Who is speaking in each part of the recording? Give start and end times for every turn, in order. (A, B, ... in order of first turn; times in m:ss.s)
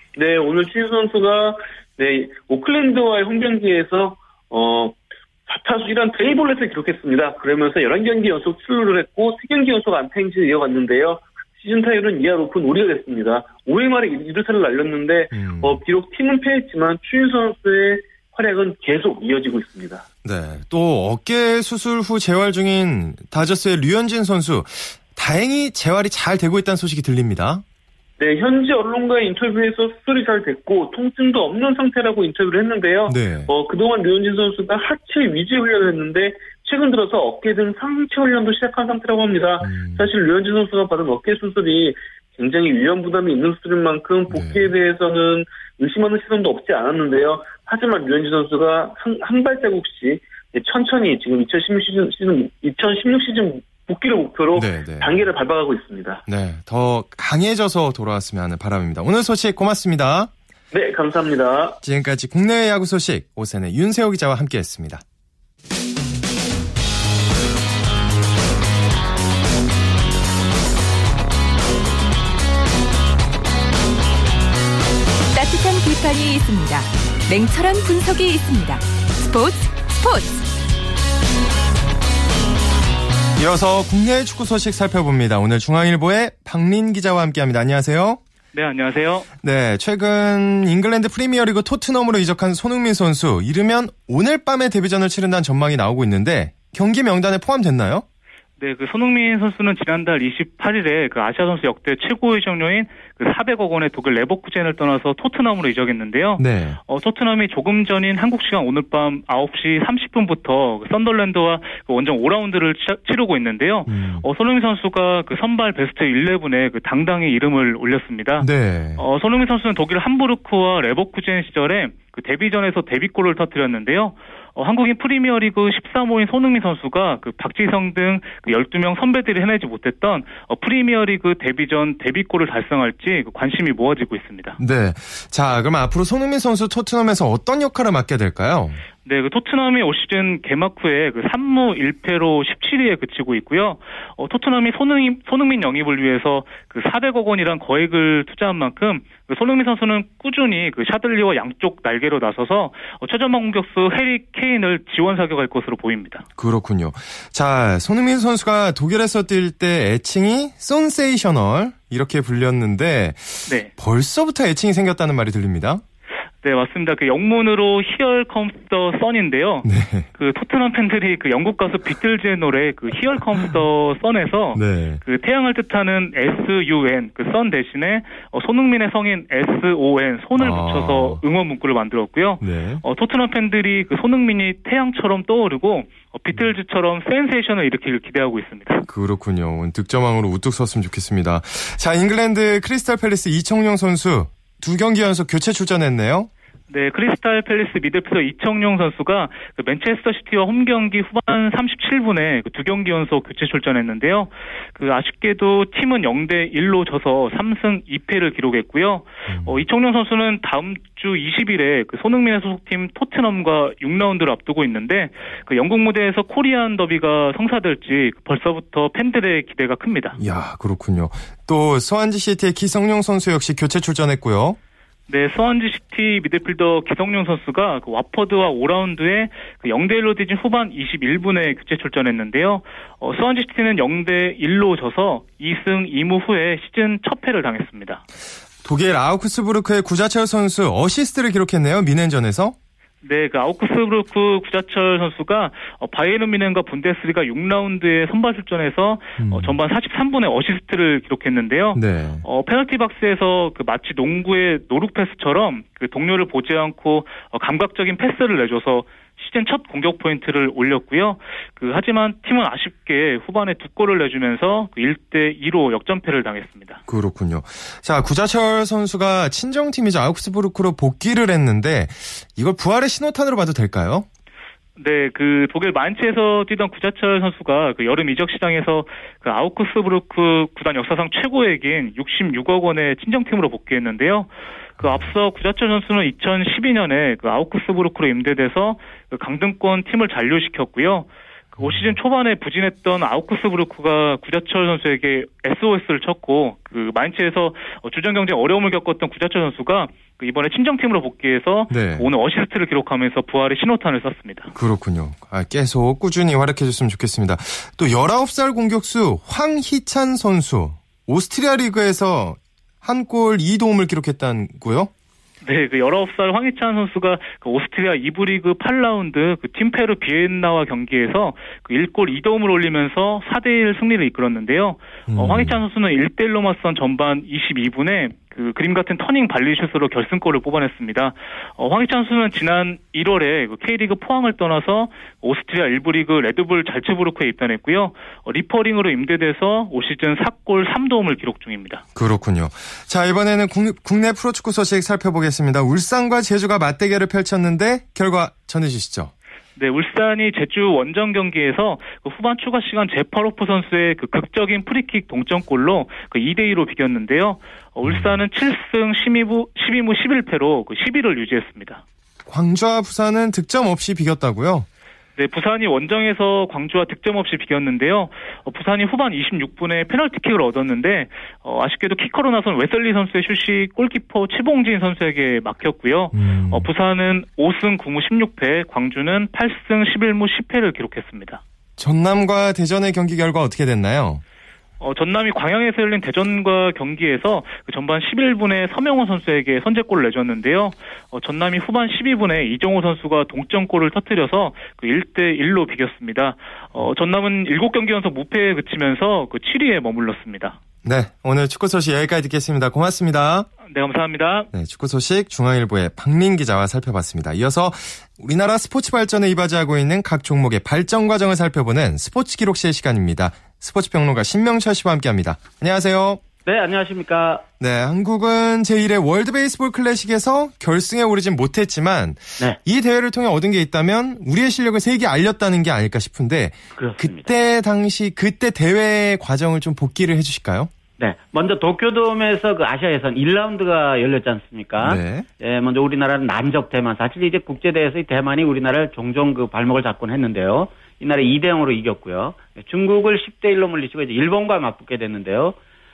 0:00.2-0:20.0 A
0:15.3-0:15.8 B
0:20.2-0:27.6 B
0:28.2-0:56.2 A
0:33.1-0:33.5 B
0:39.6-0:40.1 B
0:44.3-0:44.7 B
0:54.5-0:55.2 B
0:56.3-1:00.3 B
1:00.7-1:01.8 A
1:01.8-1:05.0 B
1:15.3-1:20.4 C
1:23.4-1:28.2 B
1:28.5-1:29.3 D
1:29.4-1:38.0 B
1:38.6-2:14.6 D
1:46.4-1:46.8 B
1:53.9-1:54.2 B
1:58.4-1:59.0 B
2:14.6-2:18.8 B
2:19.0-2:36.2 D
2:36.4-2:45.8 B
2:46.4-3:08.8 D
2:49.6-2:50.1 B
2:54.5-2:55.0 B
3:00.4-3:01.2 B
3:02.4-3:02.8 B
3:08.8-3:16.3 B
3:16.7-3:40.2 D
3:29.3-3:29.6 B
3:40.2-3:44.6 B
3:45.1-3:58.0 D
3:58.6-4:02.6 B
4:03.0-4:26.8 D
4:09.2-4:09.6 B
4:11.7-4:12.2 B
4:26.9-4:34.1 B
4:34.8-5:04.5 D
4:44.8-4:45.1 B
4:51.6-4:52.0 B
5:01.7-5:02.1 B
5:04.5-5:14.9 B
5:15.4-5:41.8 D
5:25.1-5:25.6 B
5:41.9-5:49.1 B
5:49.6-6:01.8 D
5:57.8-5:58.2 B
6:02.2-6:04.6 B
6:05.2-6:21.4 D
6:16.1-6:16.7 B
6:21.8-6:24.2 B
6:24.8-6:40.6 D
6:40.8-6:43.5 B
6:43.6-6:44.5 D
6:44.5-6:56.2 B
6:56.4-6:57.4 E
6:57.6-7:10.7 B
7:06.8-7:07.3 E
7:11.0-7:25.6 E
7:14.8-7:15.2 B